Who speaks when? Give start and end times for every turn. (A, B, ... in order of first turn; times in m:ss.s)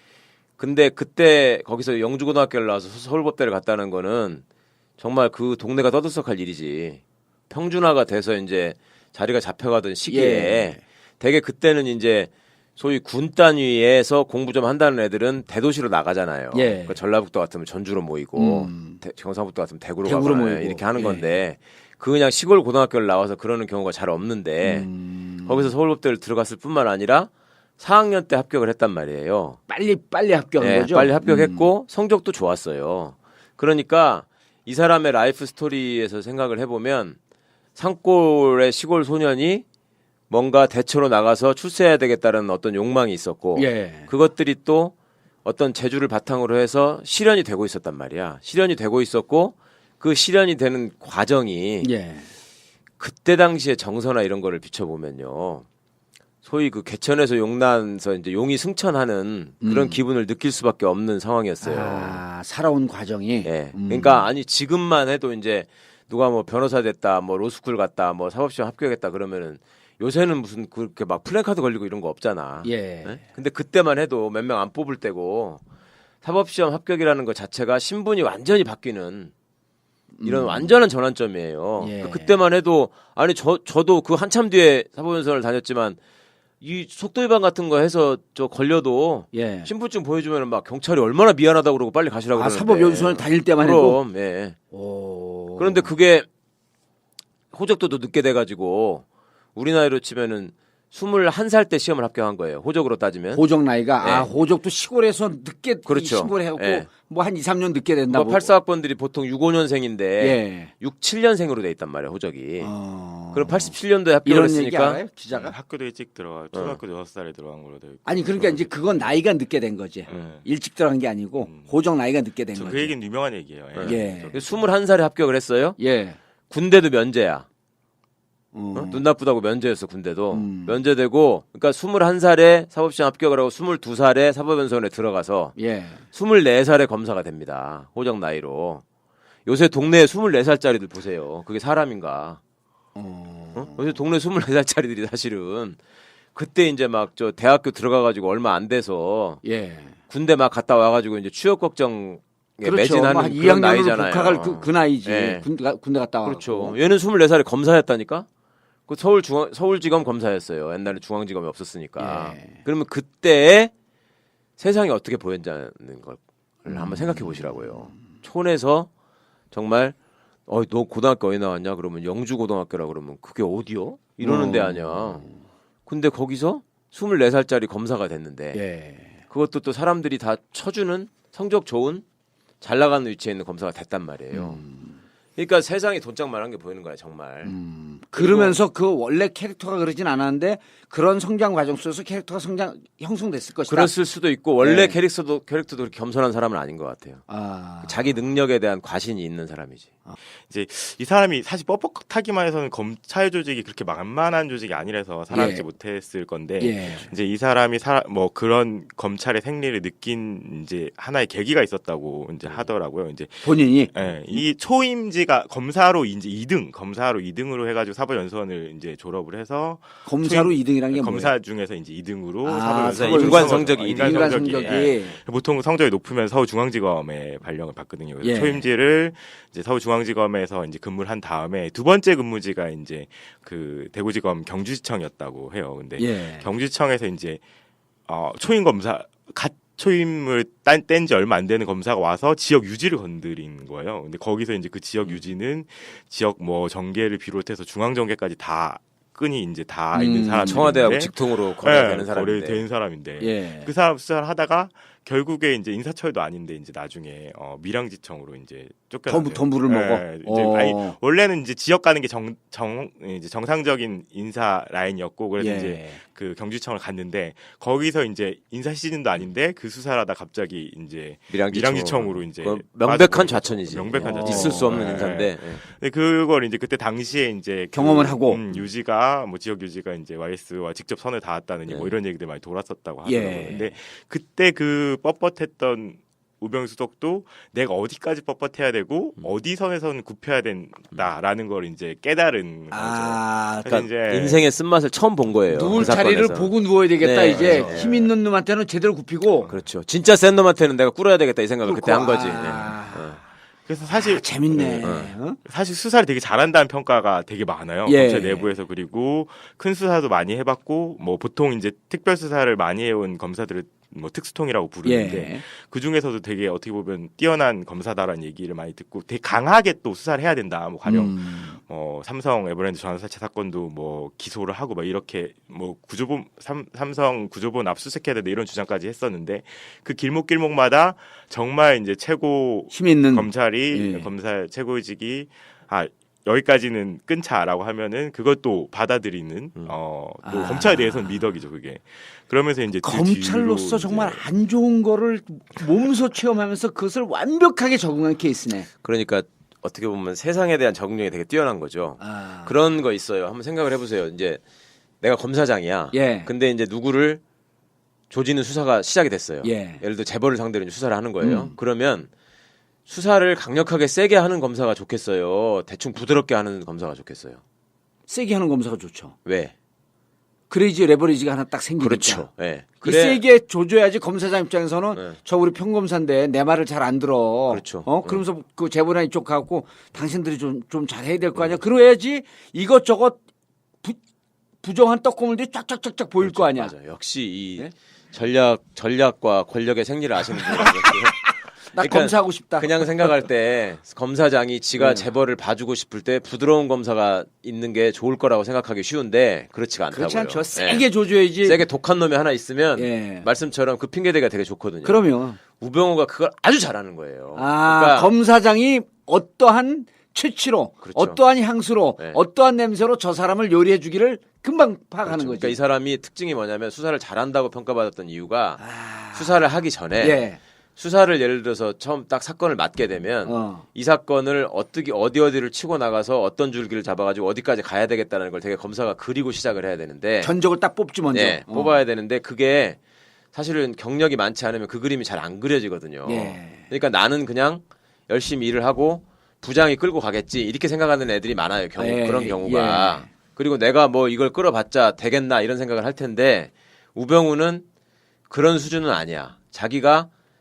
0:00.6-0:04.4 A
0:05.0-0:24.9 A
0:10.1-0:10.8 B
0:16.5-0:17.0 B
0:18.4-0:19.0 B
0:20.0-0:21.3 B
0:24.6-0:25.7 B
0:25.4-0:29.6 A
0:29.7-0:31.7 B
0:30.6-0:37.2 A
0:37.8-0:39.6 A
0:40.3-0:44.9 A
0:43.6-0:44.1 B
0:45.4-0:51.9 A
0:51.8-0:52.3 B
0:53.0-0:55.7 A
0:56.4-1:02.2 A
0:59.6-1:00.0 B
1:01.6-1:04.3 B
1:03.4-1:15.6 A
1:12.6-1:13.2 B
1:16.2-1:19.3 A
1:20.2-1:20.8 B
1:20.2-1:26.0 A
1:21.8-1:22.4 B
1:26.6-1:34.6 A
1:29.3-1:29.7 B
1:32.3-1:34.0 B
1:34.7-1:35.9 B
1:35.6-1:36.3 A
1:37.5-1:43.4 A
1:43.4-1:48.5 B
1:44.0-1:44.3 A
1:45.9-1:46.9 A
1:48.1-1:52.7 A
1:50.2-1:50.7 B
1:52.6-1:53.7 B
1:53.3-1:55.0 A
1:54.2-1:55.6 B
1:55.3-1:58.7 C
1:56.5-1:56.8 A
1:58.1-2:02.9 B
2:00.1-2:00.4 C
2:01.4-2:01.7 C
2:02.6-2:04.6 C
2:03.7-2:05.8 A
2:03.8-2:04.4 B
2:05.8-2:06.2 B
2:06.5-2:07.5 A
2:08.5-2:09.0 B
2:08.7-2:15.6 A
2:10.3-2:10.8 B
2:15.6-2:16.0 B
2:16.1-2:18.8 A
2:19.5-2:22.4 A
2:23.0-2:23.8 B
2:23.6-2:25.8 A
2:26.4-2:29.4 A
2:29.4-2:30.0 B
2:30.1-2:35.5 A
2:32.6-2:36.8 B
2:36.2-2:38.3 A
2:38.9-2:43.7 A
2:42.0-2:42.6 B
2:44.6-2:48.9 A
2:46.7-2:47.8 B
2:49.5-2:50.0 A
2:50.5-2:55.3 A
2:54.2-2:55.3 B
2:55.9-2:58.6 A
2:58.5-2:59.2 B
2:59.3-3:02.0 A
3:02.6-3:04.6 A
3:04.3-3:05.0 B
3:05.4-3:07.6 A
3:07.4-3:13.9 B
3:08.2-3:08.6 A
3:13.7-3:17.2 A
3:14.6-3:15.0 B
3:17.3-3:18.0 B
3:17.8-3:19.9 A
3:20.5-3:57.4 C
3:25.3-3:25.6 B
3:26.6-3:27.1 B
3:33.4-3:33.9 B
3:40.1-3:41.3 B
3:42.4-3:45.2 B
3:42.8-3:44.9 A
3:48.2-3:48.6 B
3:56.0-3:56.5 B
3:58.1-4:54.4 C
4:09.9-4:11.0 B
4:10.4-4:12.6 A
4:13.2-4:13.7 B
4:19.1-4:21.0 B
4:25.4-4:26.0 B
4:31.3-4:35.6 A
4:34.0-4:35.1 B
4:37.7-4:38.4 B
4:41.7-4:42.0 A
4:43.1-4:43.6 B
4:52.7-4:53.7 B
4:53.7-4:58.1 A
4:55.5-4:59.5 B
4:57.3-4:57.8 C
4:59.4-5:03.2 A
5:01.7-5:03.2 B
5:03.7-5:44.2 C
5:03.9-5:05.4 B
5:04.8-5:05.1 A
5:07.9-5:08.5 B
5:14.8-5:15.4 B
5:20.9-5:21.6 B
5:32.7-5:34.1 B
5:40.2-5:41.3 B
5:42.8-5:48.7 B
5:48.8-5:54.4 A
5:52.0-5:52.5 B
5:55.0-5:57.2 A
5:55.9-5:56.3 B
5:58.1-6:02.1 A
5:59.4-5:59.8 B
6:01.2-6:01.6 B
6:02.9-6:07.4 A
6:08.1-6:09.1 B
6:09.2-6:09.5 A
6:10.5-6:12.3 B
6:11.8-6:13.2 A
6:12.8-6:23.2 B
6:17.5-6:18.2 A
6:24.6-6:26.7 B
6:26.2-6:40.8 A
6:30.3-6:31.2 B
6:31.7-6:33.1 B
6:34.8-6:35.1 B
6:39.9-6:41.6 B
6:41.4-6:48.1 A
6:42.8-6:43.3 B
6:44.8-6:45.4 B
6:47.4-6:55.6 B
6:50.8-6:51.2 A
6:55.0-7:00.2 A
6:58.6-6:59.4 B
7:00.0-7:00.4 B
7:00.8-7:10.3 A
7:03.2-7:03.6 B
7:10.2-7:11.7 B
7:11.1-7:12.8 A
7:13.3-7:27.6 A
7:16.1-7:16.6 B
7:21.8-7:23.1 B
7:28.3-7:30.1 A